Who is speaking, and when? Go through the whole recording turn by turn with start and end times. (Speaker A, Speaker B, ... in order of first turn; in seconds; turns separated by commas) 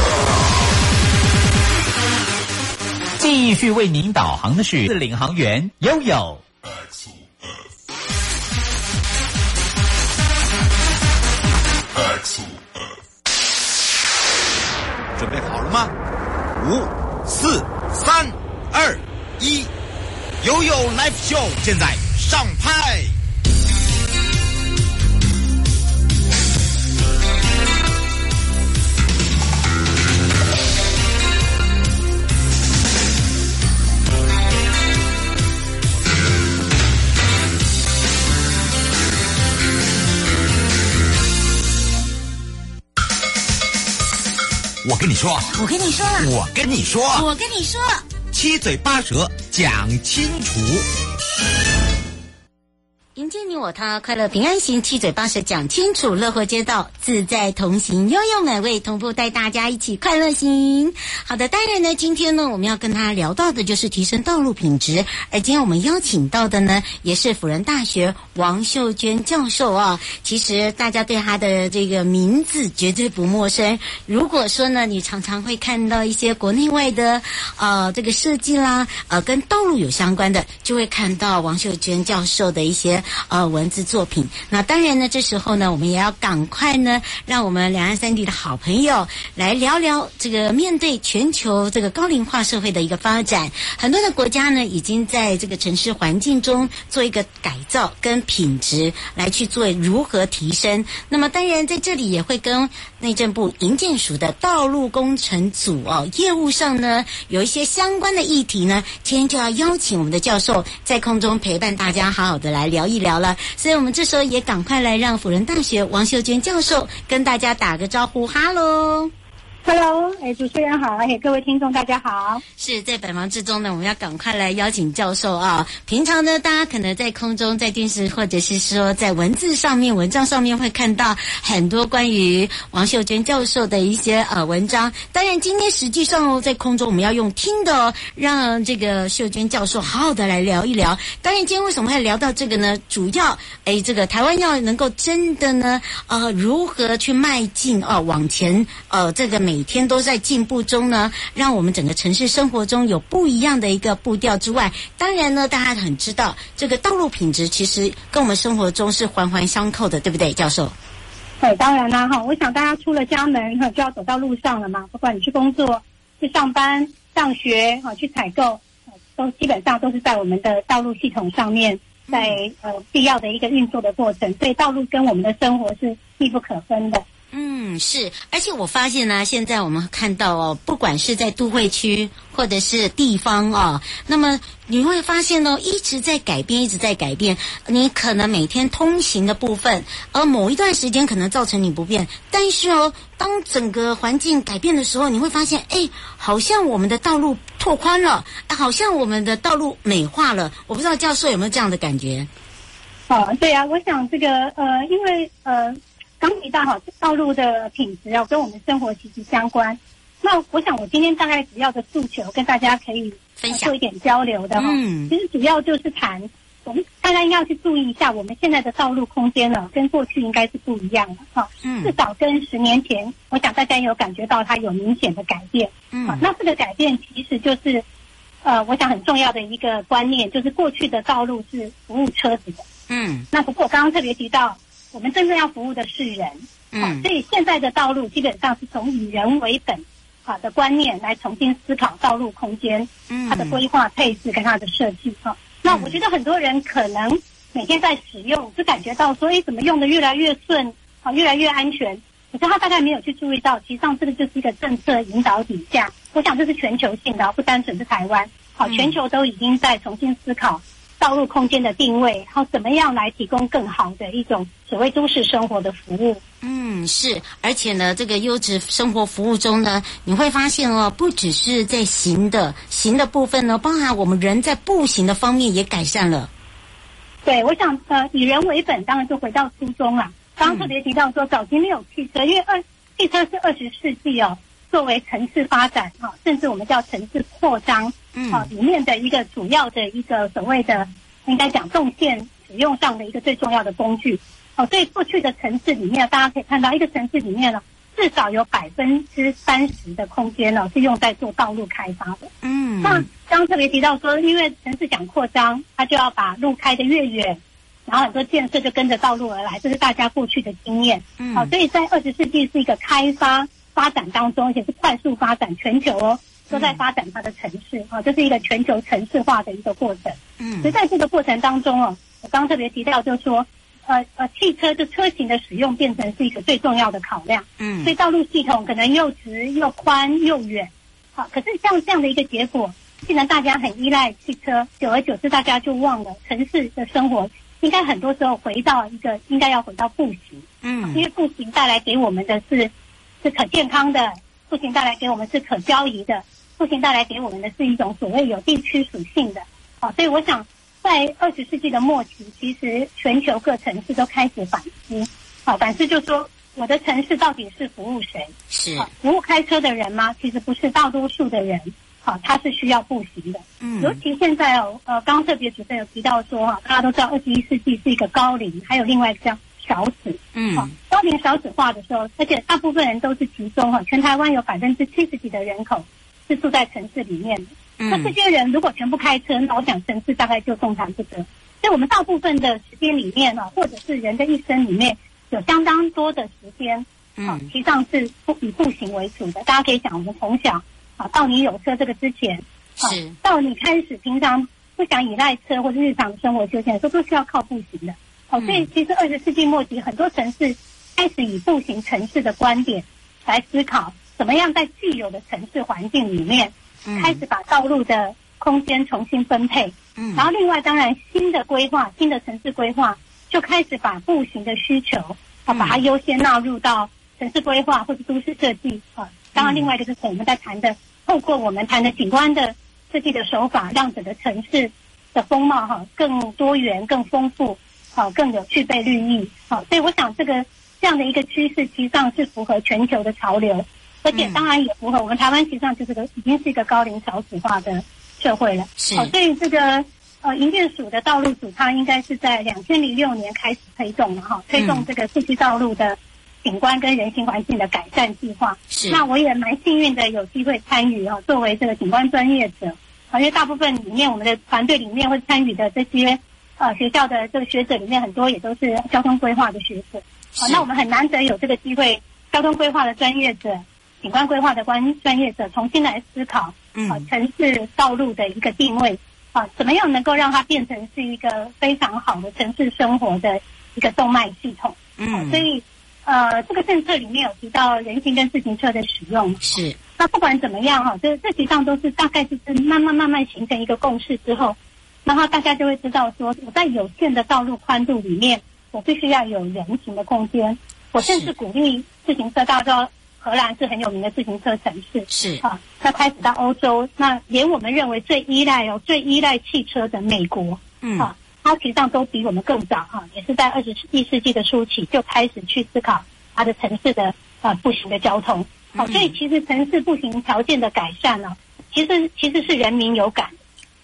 Speaker A: 3.2-6.4, Speaker B: 15.2-15.9, Speaker B: 16.5-19.7, Speaker B: 20.4-23.1, Speaker B: 44.8-45.5, Speaker C: 45.5-46.3, Speaker B: 46.2-47.2, Speaker C: 47.1-48.0, Speaker B: 48.3-50.8, Speaker C: 53.1-119.1, Speaker D: 119.6-122.4, Speaker C: 122.6-160.7, Speaker D: 161.4-168.6, Speaker D: 169.2-177.0, Speaker C: 172.1-172.4, Speaker C: 177.3-202.3, Speaker D: 203.1-227.8, Speaker C: 213.4-213.7, Speaker C: 214.6-215.1, Speaker C: 221.6-221.9, Speaker C: 225.9-226.2, Speaker D: 228.4-232.6, Speaker C: 232.9-233.3, Speaker D: 233.3-266.2, Speaker C: 236.7-237.1, Speaker C: 243.1-243.6, Speaker C: 245.7-246.0, Speaker C: 258.6-259.0, Speaker C: 266.4-276.3, Speaker D: 277.2-513.3, Speaker C: 280.4-280.7, Speaker C: 288.1-288.5, Speaker C: 302.4-303.1, Speaker C: 311.2-311.5, Speaker C: 316.5-316.8, Speaker C: 320.4-320.7, Speaker C: 327.6-327.9, Speaker C: 340.6-341.0, Speaker C: 358.5-358.9, Speaker C: 363.6-364.0, Speaker C: 370.3-370.7, Speaker C: 377.8-378.1, Speaker C: 387.2-387.5, Speaker C: 392.8-393.1, Speaker C: 398.4-398.7, Speaker C: 406.9-407.2, Speaker C: 410.0-410.3, Speaker C: 415.5-415.8, Speaker C: 419.4-419.7, Speaker C: 434.1-434.4, Speaker C: 438.8-439.1, Speaker C: 444.5-444.9, Speaker C: 448.7-449.0, Speaker C: 460.4-460.6, Speaker C: 466.7-467.1, Speaker C: 475.0-475.4, Speaker C: 479.4-479.8, Speaker C: 491.0-491.3, Speaker C: 495.1-495.4, Speaker C: 500.8-501.1, Speaker C: 508.7-509.1